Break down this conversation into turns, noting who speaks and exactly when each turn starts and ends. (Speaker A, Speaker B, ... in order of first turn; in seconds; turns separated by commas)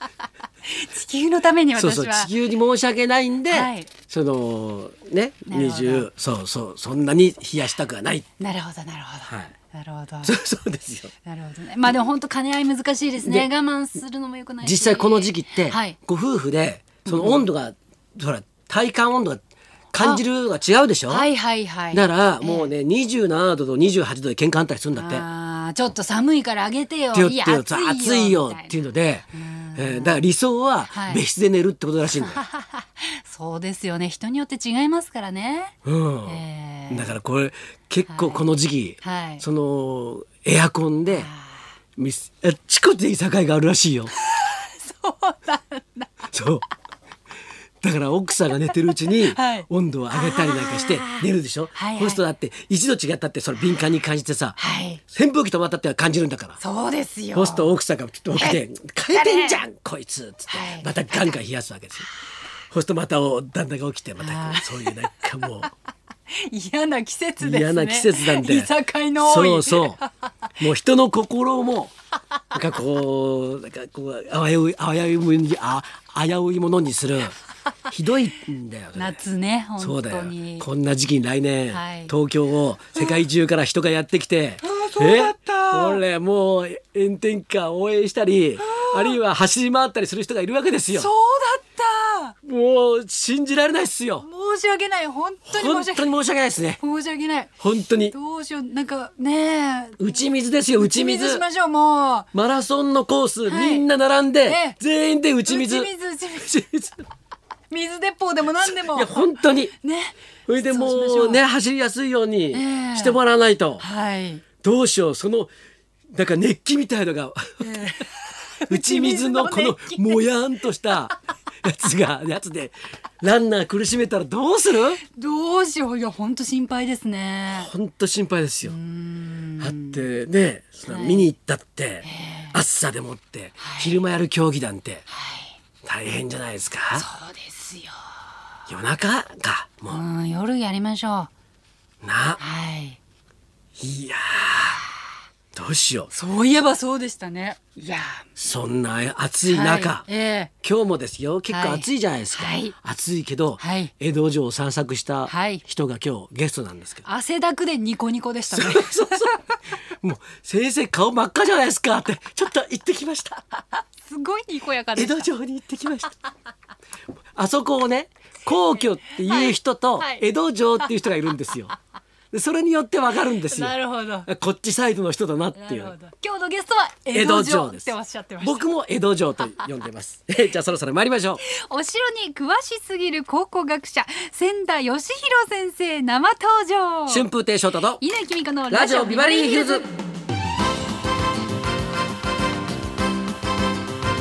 Speaker A: 0.7-2.3, Speaker B: 1.8-8.2, Speaker A: 3.5-3.9, Speaker A: 5.5-6.1, Speaker A: 8.4-10.3, Speaker B: 9.3-9.5, Speaker B: 10.2-11.1, Speaker A: 11.2-15.9, Speaker B: 13.2-13.5, Speaker B: 14.6-21.3, Speaker A: 17.1-17.4, Speaker A: 21.1-22.7, Speaker B: 21.9-25.2, Speaker A: 24.9-28.8, Speaker B: 27.1-32.4, Speaker A: 29.3-30.2, Speaker A: 30.9-31.2, Speaker A: 32.2-35.7, Speaker B: 35.8-41.3, Speaker A: 36.2-37.1, Speaker A: 38.1-38.4, Speaker A: 39.0-39.4, Speaker A: 41.1-41.7, Speaker B: 42.0-44.1, Speaker A: 44.1-46.3, Speaker B: 46.3-46.6, Speaker B: 47.8-56.6, Speaker A: 48.6-52.2, Speaker A: 54.6-55.0, Speaker A: 56.6-57.7, Speaker B: 57.3-62.1, Speaker A: 58.3-59.6, Speaker A: 60.5-61.4, Speaker B: 62.7-65.7, Speaker A: 64.2-65.6, Speaker A: 66.3-70.1, Speaker B: 67.4-70.0, Speaker B: 70.6-71.9, Speaker B: 72.5-79.2, Speaker A: 78.9-80.7, Speaker B: 79.8-91.1, Speaker A: 81.7-82.1, Speaker A: 83.0-83.2, Speaker A: 84.6-86.0, Speaker A: 88.6-89.2, Speaker A: 90.9-92.3, Speaker B: 92.4-94.2, Speaker A: 94.2-96.1, Speaker B: 95.5-96.8, Speaker A: 96.8-97.5, Speaker B: 97.6-98.1, Speaker A: 98.1-102.3, Speaker B: 100.0-101.4, Speaker B: 102.3-107.0, Speaker A: 103.5-103.9, Speaker A: 104.4-104.8, Speaker A: 105.5-106.6, Speaker A: 107.7-111.4, Speaker B: 108.6-109.7, Speaker B: 110.5-113.8, Speaker A: 112.5-113.2, Speaker A: 113.8-114.4, Speaker B: 114.6-115.5, Speaker B: 116.1-118.0, Speaker A: 117.6-120.2, Speaker B: 118.7-125.0, Speaker A: 125.1-127.7, Speaker B: 127.5-128.7, Speaker A: 128.6-130.1, Speaker B: 129.6-135.1, Speaker A: 130.9-131.3, Speaker A: 132.0-132.6, Speaker A: 133.6-134.0, Speaker A: 135.1-135.6, Speaker B: 135.8-137.1, Speaker A: 136.9-138.2, Speaker B: 138.7-140.0, Speaker A: 139.9-141.3, Speaker B: 142.0-142.4, Speaker A: 142.4-143.0, Speaker B: 143.8-144.8, Speaker B: 145.5-146.1, Speaker A: 146.1-148.2, Speaker B: 148.3-150.1, Speaker A: 149.4-150.5, Speaker B: 150.6-157.1, Speaker A: 151.5-152.7, Speaker A: 153.6-153.9, Speaker A: 155.3-155.6, Speaker A: 157.0-159.6, Speaker B: 158.5-163.4, Speaker A: 164.0-165.3, Speaker B: 164.9-166.1, Speaker B: 167.3-171.7, Speaker A: 169.2-170.2, Speaker B: 172.3-175.9, Speaker A: 173.5-174.3, Speaker A: 175.5-178.7, Speaker B: 177.1-181.4, Speaker A: 181.4-187.3, Speaker B: 187.1-188.0, Speaker A: 188.0-189.9, Speaker B: 188.7-189.8